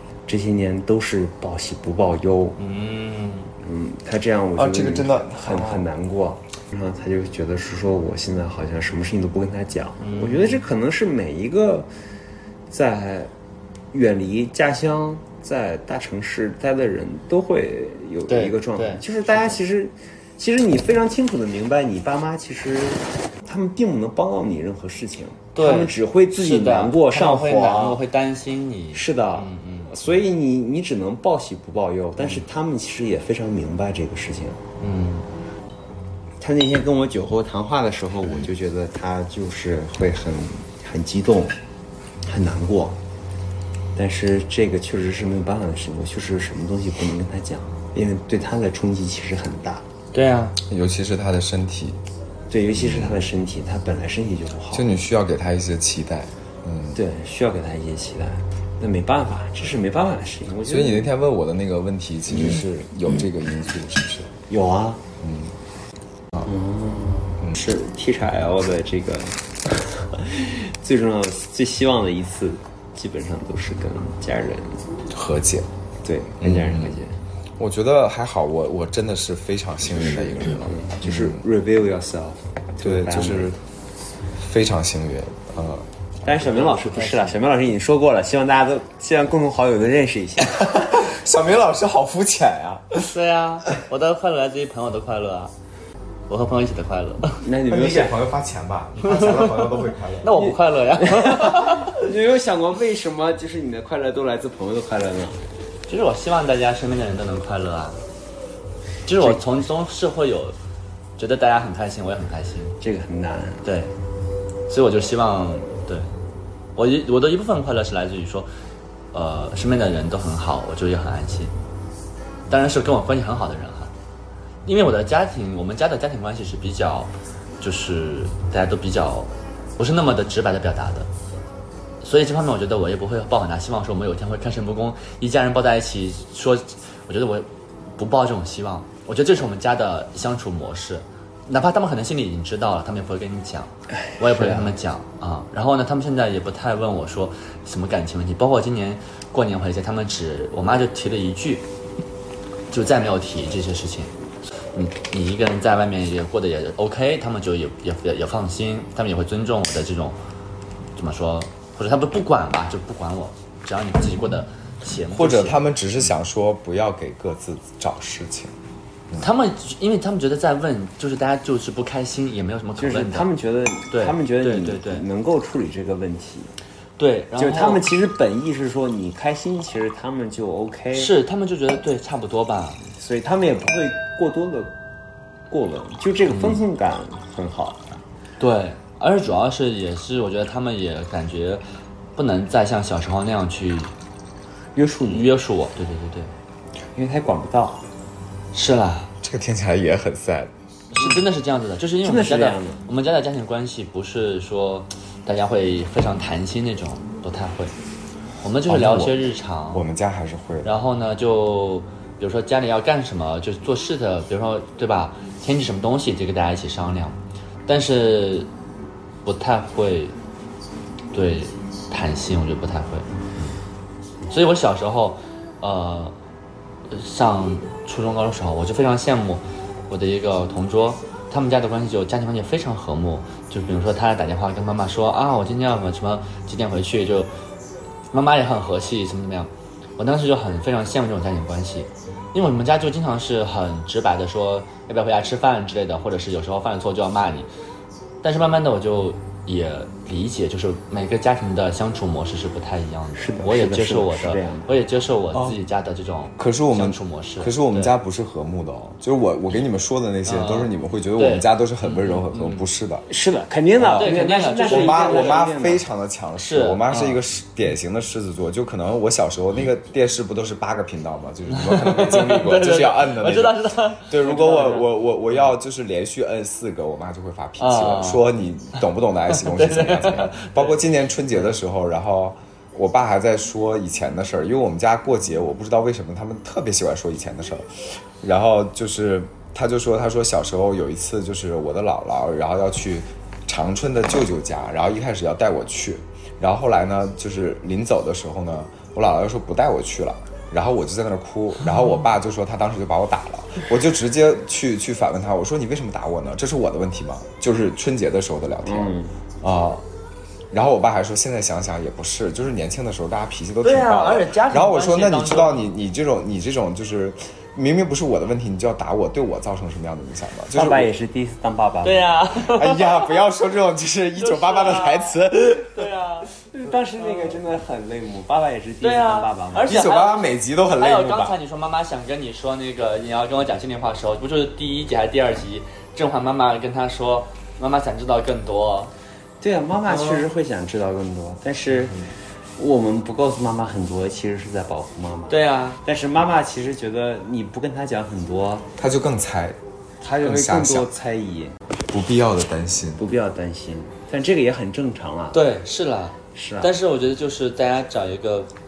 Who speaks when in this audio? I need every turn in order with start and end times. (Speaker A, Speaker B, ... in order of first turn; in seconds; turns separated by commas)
Speaker A: 0.3-2.6, Speaker B: 2.6-3.5, Speaker A: 3.6-11.9, Speaker C: 4.6-5.9, Speaker B: 10.0-10.6, Speaker A: 12.7-13.3, Speaker A: 13.9-28.0, Speaker B: 18.3-19.0, Speaker B: 25.6-29.9, Speaker A: 28.9-34.6, Speaker B: 34.8-35.3, Speaker A: 36.4-41.6, Speaker A: 42.2-43.0, Speaker A: 44.0-49.9, Speaker B: 50.1-50.6, Speaker C: 50.7-52.0, Speaker A: 52.5-54.9, Speaker C: 52.7-53.3, Speaker C: 54.7-57.0, Speaker A: 57.0-61.1, Speaker C: 60.6-64.3, Speaker A: 62.3-62.6, Speaker A: 64.5-65.0, Speaker C: 65.2-65.5, Speaker A: 66.5-74.9, Speaker C: 75.1-75.7, Speaker A: 76.0-77.2, Speaker C: 76.4-77.0, Speaker C: 77.6-81.4, Speaker A: 79.8-83.5, Speaker C: 82.8-83.6, Speaker C: 84.4-85.9, Speaker A: 86.2-90.8, Speaker B: 86.4-87.4, Speaker C: 90.6-93.2, Speaker B: 93.1-95.5, Speaker B: 96.3-97.4, Speaker A: 97.4-98.2, Speaker C: 97.7-100.4, Speaker B: 99.0-102.0, Speaker A: 100.4-105.4, Speaker B: 105.9-108.0, Speaker B: 109.1-110.6, Speaker B: 111.2-112.8, Speaker A: 112.8-113.7, Speaker B: 113.6-113.9, Speaker B: 114.7-116.1, Speaker B: 116.8-118.5, Speaker B: 119.1-121.5, Speaker B: 122.5-123.9, Speaker B: 124.7-131.1, Speaker B: 132.0-151.7, Speaker A: 144.2-144.7, Speaker B: 152.7-154.1, Speaker B: 154.8-160.2, Speaker B: 161.0-165.7, Speaker C: 165.1-168.6, Speaker B: 169.2-173.3, Speaker A: 172.8-176.5, Speaker B: 173.9-175.1, Speaker B: 177.0-177.9, Speaker A: 177.4-181.1, Speaker B: 180.9-182.8, Speaker A: 183.0-184.7, Speaker A: 185.5-187.9, Speaker B: 186.3-186.6, Speaker B: 188.4-191.6, Speaker B: 192.2-193.9, Speaker A: 194.8-195.3, Speaker B: 195.1-196.3, Speaker A: 197.0-197.9, Speaker B: 198.5-199.1, Speaker C: 199.2-200.5, Speaker B: 200.9-207.7, Speaker A: 202.0-202.8, Speaker B: 208.4-209.8, Speaker C: 208.7-210.8, Speaker B: 210.7-218.5, Speaker B: 219.2-220.2, Speaker B: 221.1-223.6, Speaker B: 224.3-226.2, Speaker B: 226.9-237.3, Speaker B: 238.1-247.5, Speaker B: 248.2-257.9, Speaker A: 253.2-254.7, Speaker C: 256.4-263.1, Speaker B: 260.3-262.7, Speaker A: 263.1-265.8, Speaker B: 263.9-265.5, Speaker C: 264.6-309.8, Speaker B: 266.4-267.2, Speaker B: 271.5-274.9, Speaker B: 277.6-278.3, Speaker B: 279.3-280.8, Speaker A: 308.6-309.2, Speaker C: 310.5-320.9, Speaker B: 313.6-315.7, Speaker A: 320.6-322.1, Speaker B: 321.8-323.1, Speaker C: 322.5-325.9, Speaker B: 324.2-326.3, Speaker A: 326.5-329.8, Speaker B: 327.0-327.4, Speaker B: 328.8-338.9, Speaker C: 329.7-331.4, Speaker A: 339.4-342.1, Speaker B: 339.9-340.2, Speaker A: 342.6-348.7, Speaker B: 345.3-345.8, Speaker C: 348.8-349.6, Speaker A: 350.0-351.6, Speaker C: 350.1-350.9, Speaker C: 351.9-353.0, Speaker A: 353.0-355.4, Speaker B: 355.3-358.5, Speaker A: 356.4-356.7